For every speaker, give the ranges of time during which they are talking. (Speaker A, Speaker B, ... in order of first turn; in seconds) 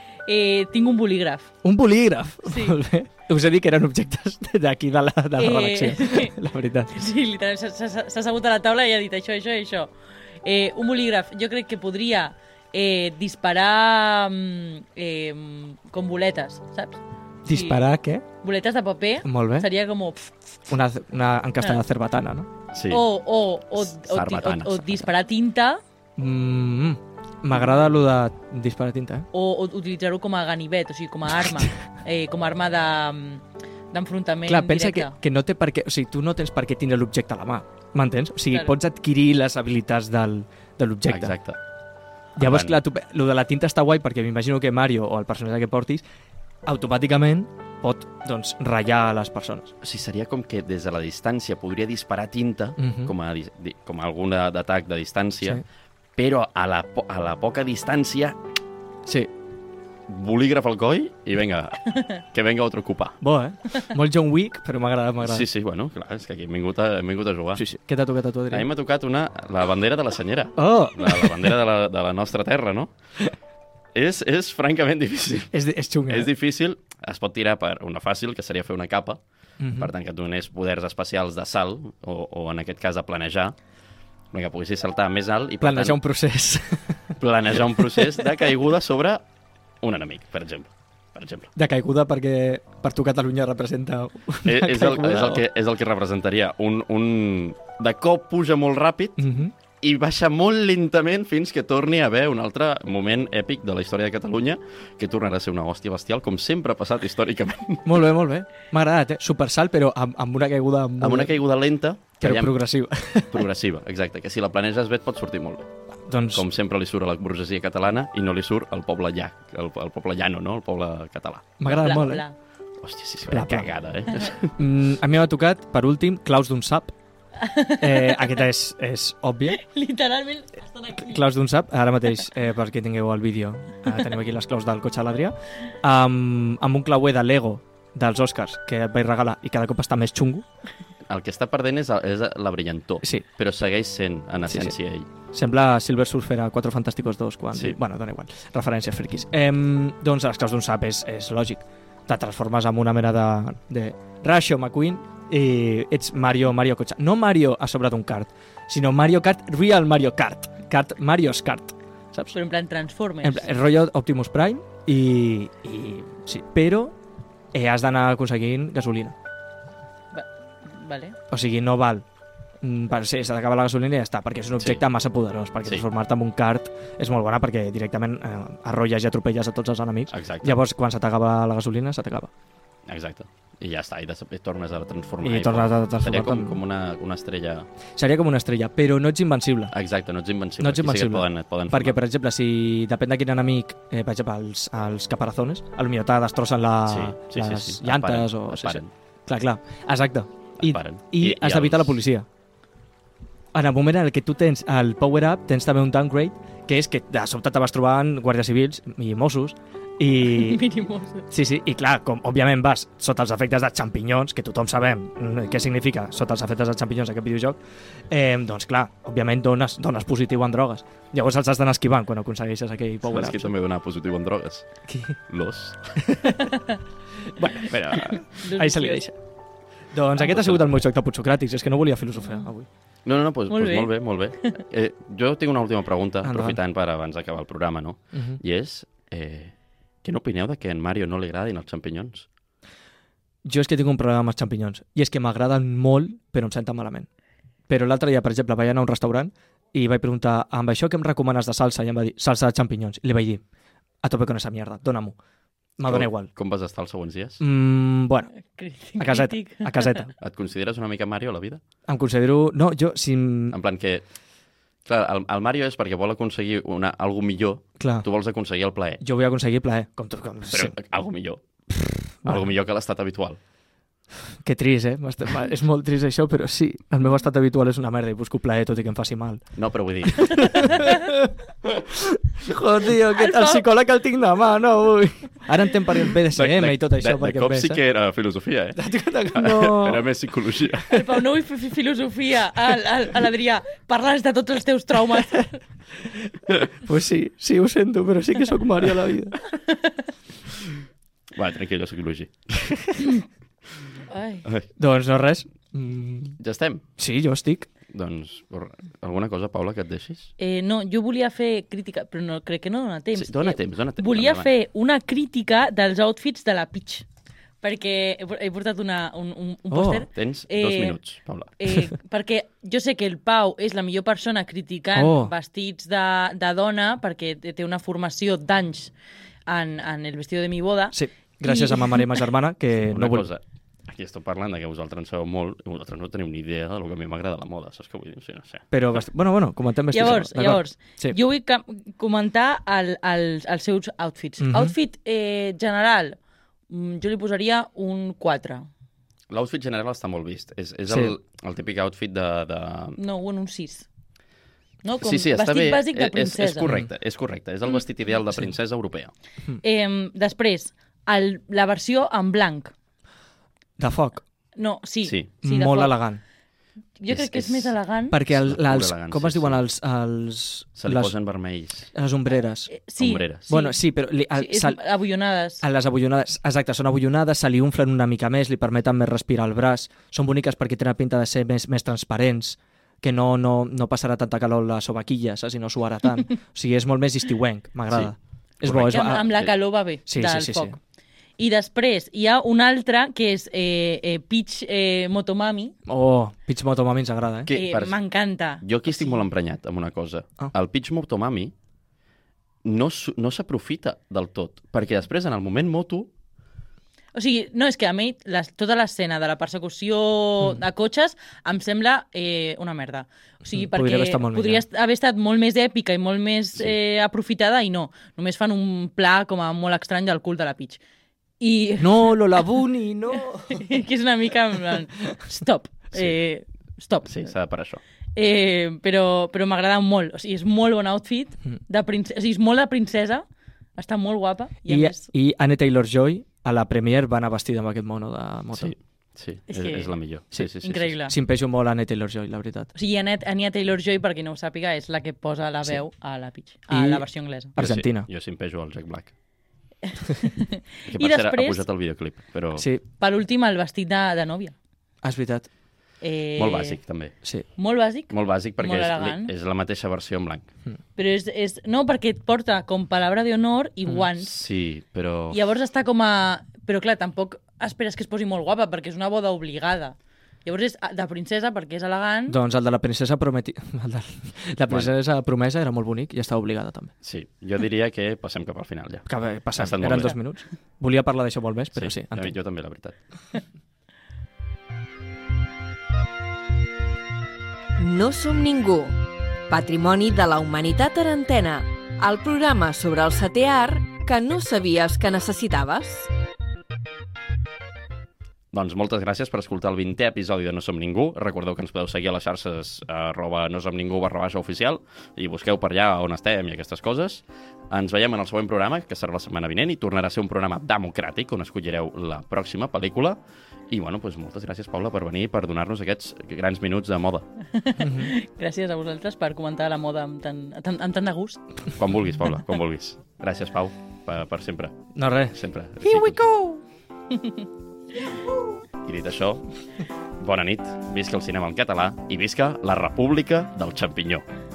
Speaker A: 0.3-1.5, 2.5-2.8, 5.4-6.3, 6.9-9.9, 10.4-17.8, 18.4-20.3, 22.9-25.8, 29.3-35.1, 121.7-122.3, 127.4-128.4, 129.5-131.2, 162.3-163.5, 170.1-171.2, 210.2-211.2, 227.9-229.0, 233.5-234.5, 258.5-260.1, 283.1-283.6, 290.9-295.6, 304.1-304.4, 310.4-317.0, 317.6-321.0, 321.6-328.9, 329.5-332.2, 339.9-346.2, 346.7-348.7, 353.0-353.9, 354.8-356.7, 359.6-362.7, 364.6-366.0, 367.0-368.2, 372.7-373.8, 374.3-375.6, 388.7-390.8, 391.4-395.7, 397.5-399.2, 407.1-420.8, 421.4-422.4, 423.1-427.2, 428.1-433.2, 433.8-435.1, 439.5-439.9, 440.6-441.1, 442.7-447.5, 449.9-451.6, 453.0-454.5, 456.0-456.8, 457.6-459.3, 460.9-464.4, 465.3-472.4, 517.5-521.4, 527.1-527.4
Speaker B: 1.6-7.0, 17.4-18.2, 19.2-19.7, 20.7-22.5, 26.2-29.3, 34.5-41.3, 42.4-46.0, 46.6-49.7, 52.8-53.1, 59.0-59.3, 63.2-65.5, 67.5-68.7, 70.6-71.5, 75.5-76.3, 79.6-79.9, 85.6-88.3, 91.5-95.4, 99.2-99.5, 107.8-111.3, 112.2-113.4, 116.1-116.4, 121.6-122.2, 123.3-123.7, 124.4-126.9, 127.8-129.6, 130.9-140.4, 144.5-144.7, 145.3-162.3, 163.2-166.9, 167.5-169.2, 171.3-172.0, 172.6-182.3, 185.2-186.6, 187.9-189.7, 190.6-202.3, 203.5-210.6, 211.3-223.5, 224.9-225.2, 226.0-226.5, 227.3-229.2, 229.9-232.7, 236.2-236.6, 238.1-238.4, 243.4-247.1, 247.7-253.4, 254.0-255.2, 255.8-256.3, 257.4-258.3, 259.0-260.1, 261.9-263.6, 267.8-268.0, 269.0-270.7, 271.8-272.5, 274.3-279.5, 280.1-287.8, 288.8-290.0, 296.1-299.4, 304.8-306.4, 307.0-307.7, 319.7-320.1, 324.9-325.3, 330.9-333.3, 338.7-341.2, 344.4-344.7, 363.8-364.2, 365.4-366.2, 368.1-371.1, 371.9-372.7, 373.5-374.8, 375.6-389.3, 390.1-390.8, 395.9-397.5, 413.5-414.6, 421.8-423.7, 434.7-438.7, 441.1-442.7, 446.7-448.1, 452.6-452.8, 455.0-455.5, 472.3-476.9, 479.1-482.3, 517.8-518.1, 524.9-526.6, 528.0-528.6
Speaker C: 22.7-23.1, 23.8-25.1, 41.1-41.6, 42.4-42.8, 49.8-55.6, 56.2-58.4, 60.1-63.2, 65.2-67.6, 68.5-72.9, 73.9-75.5, 76.1-79.2, 79.8-83.5, 84.3-86.0, 87.2-89.2, 89.8-91.5, 94.4-99.2, 99.8-107.9, 111.0-112.6, 113.3-115.7, 116.3-122.0, 122.8-124.6, 141.1-145.1, 180.1-180.6, 182.9-187.7, 189.7-192.0, 196.9-198.9, 200.6-202.0, 223.1-224.7, 225.3-226.0, 227.7-228.0, 230.2-230.6, 233.0-242.3, 255.8-257.4, 260.2-261.6, 263.5-264.0, 264.8-269.0, 270.5-271.4, 272.2-273.4, 279.6-280.8, 286.3-291.1, 301.3-302.8, 306.4-306.8, 307.9-310.3, 313.1-314.5, 320.1-321.5, 332.8-338.6, 349.3-353.0, 355.0-359.1, 367.1-367.7, 368.3-369.6, 370.8-371.9, 373.0-373.5, 388.6-389.5, 397.5-397.9, 398.6-401.5, 402.6-406.1, 427.0-427.8, 438.5-440.9, 447.6-449.1, 450.9-452.7, 456.4-457.1, 458.1-460.5, 464.1-465.4, 477.0-480.2, 481.7-483.0, 498.5-513.2, 513.7-517.3, 521.7-524.8, 525.3-526.2, 528.8-529.4, 530.2-534.2
Speaker D: 487.8-496.1